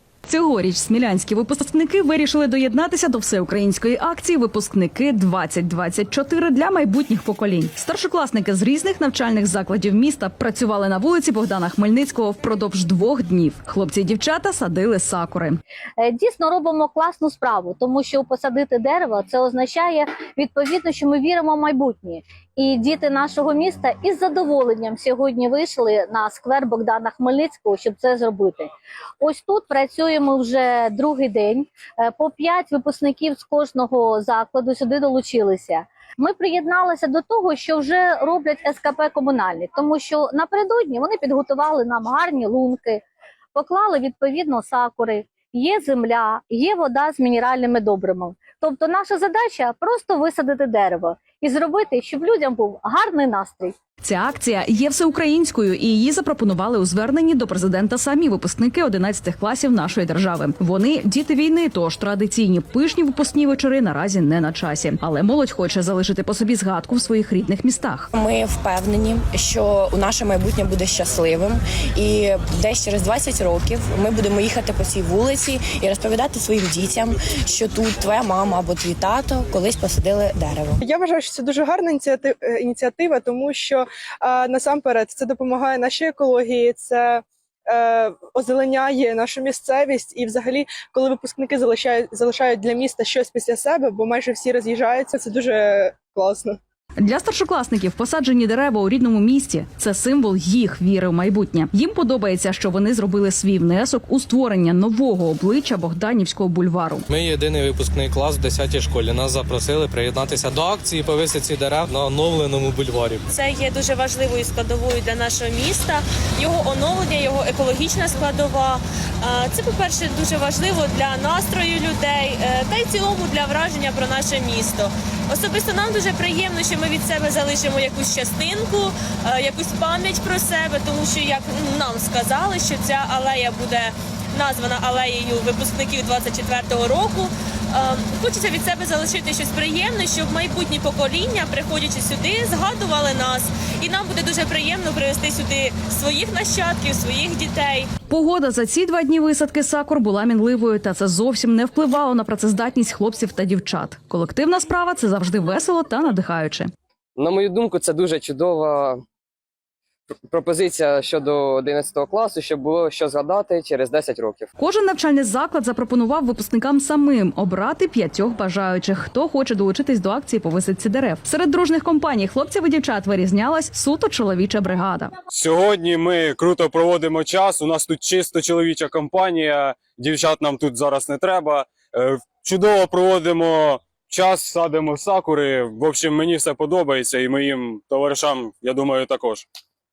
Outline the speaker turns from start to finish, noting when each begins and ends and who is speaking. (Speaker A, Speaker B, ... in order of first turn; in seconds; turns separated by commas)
Speaker A: 0.3-15.6, Speaker B: 16.0-43.0, Speaker B: 43.5-53.8, Speaker A: 54.0-68.1, Speaker C: 68.1-80.8, Speaker D: 80.8-96.6, Speaker A: 97.0-107.0, Speaker E: 107.1-113.2, Speaker F: 113.3-147.9, Speaker A: 148.1-156.7, Speaker G: 157.2-159.0, Speaker G: 160.2-164.5, Speaker A: 164.6-175.1, Speaker H: 175.3-189.4